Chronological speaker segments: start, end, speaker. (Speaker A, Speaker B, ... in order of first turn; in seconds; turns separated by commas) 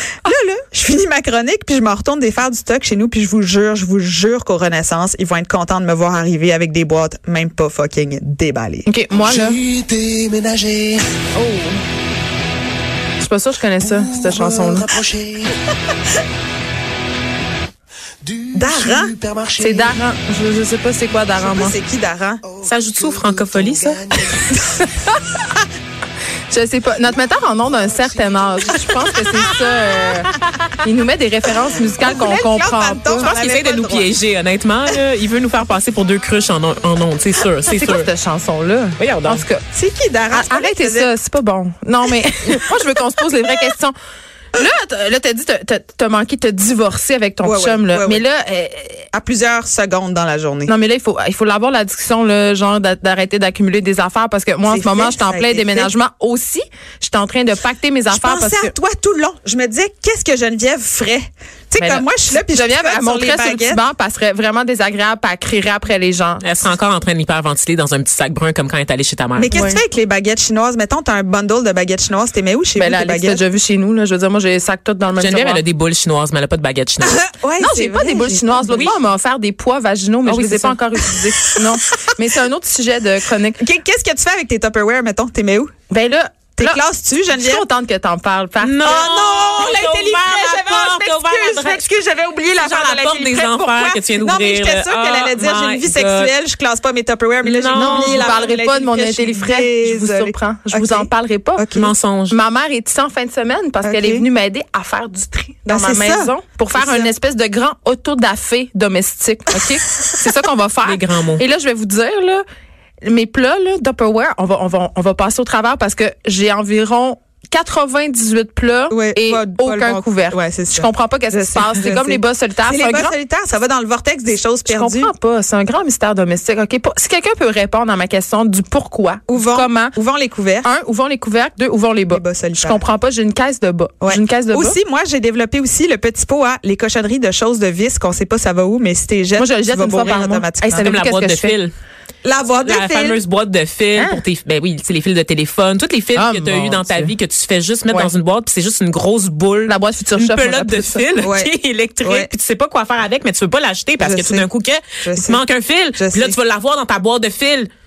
Speaker A: 0.2-8.9, Speaker B: 8.8-9.6, Speaker C: 9.2-11.1, Speaker B: 11.3-11.8, Speaker B: 13.2-14.9, Speaker C: 13.9-15.5, Speaker C: 18.2-19.9, Speaker A: 18.5-19.1, Speaker B: 19.6-21.7, Speaker A: 21.4-22.4, Speaker D: 22.6-24.1, Speaker C: 23.0-24.3, Speaker B: 26.5-33.3, Speaker A: 32.0-34.1, Speaker D: 33.2-38.1, Speaker B: 37.7-39.6, Speaker D: 39.0-39.5, Speaker A: 39.7-41.1, Speaker B: 40.3-43.9, Speaker B: 44.5-49.0, Speaker A: 47.4-48.2, Speaker A: 49.1-50.7, Speaker B: 50.6-58.7, Speaker A: 54.6-55.9, Speaker A: 58.1-63.8, Speaker B: 61.8-66.4, Speaker D: 66.4-69.5, Speaker A: 69.3-73.4, Speaker B: 69.5-69.8, Speaker B: 72.8-75.6, Speaker D: 75.2-77.2, Speaker A: 77.0-78.7, Speaker B: 77.6-83.6, Speaker D: 78.7-79.0, Speaker D: 80.3-80.8, Speaker A: 83.6-85.7, Speaker B: 85.9-89.0, Speaker A: 86.5-87.7, Speaker D: 88.6-91.9, Speaker A: 88.8-101.9, Speaker D: 92.5-96.3, Speaker D: 97.4-98.3, Speaker B: 97.7-101.7, Speaker D: 101.7-102.4, Speaker B: 102.3-112.4, Speaker A: 103.8-104.2, Speaker A: 105.7-107.1, Speaker D: 110.8-111.4, Speaker B: 113.0-123.1, Speaker A: 118.9-125.1, Speaker B: 124.6-129.9, Speaker A: 129.3-130.7, Speaker B: 130.6-134.8, Speaker A: 132.1-132.8, Speaker A: 134.0-140.9, Speaker B: 139.3-141.6, Speaker D: 140.8-141.7, Speaker A: 142.2-143.2, Speaker D: 142.6-157.7, Speaker B: 143.9-144.2, Speaker B: 146.1-147.1, Speaker B: 149.7-151.1, Speaker A: 151.2-152.3, Speaker A: 154.0-154.5, Speaker A: 155.0-155.4, Speaker A: 155.9-156.4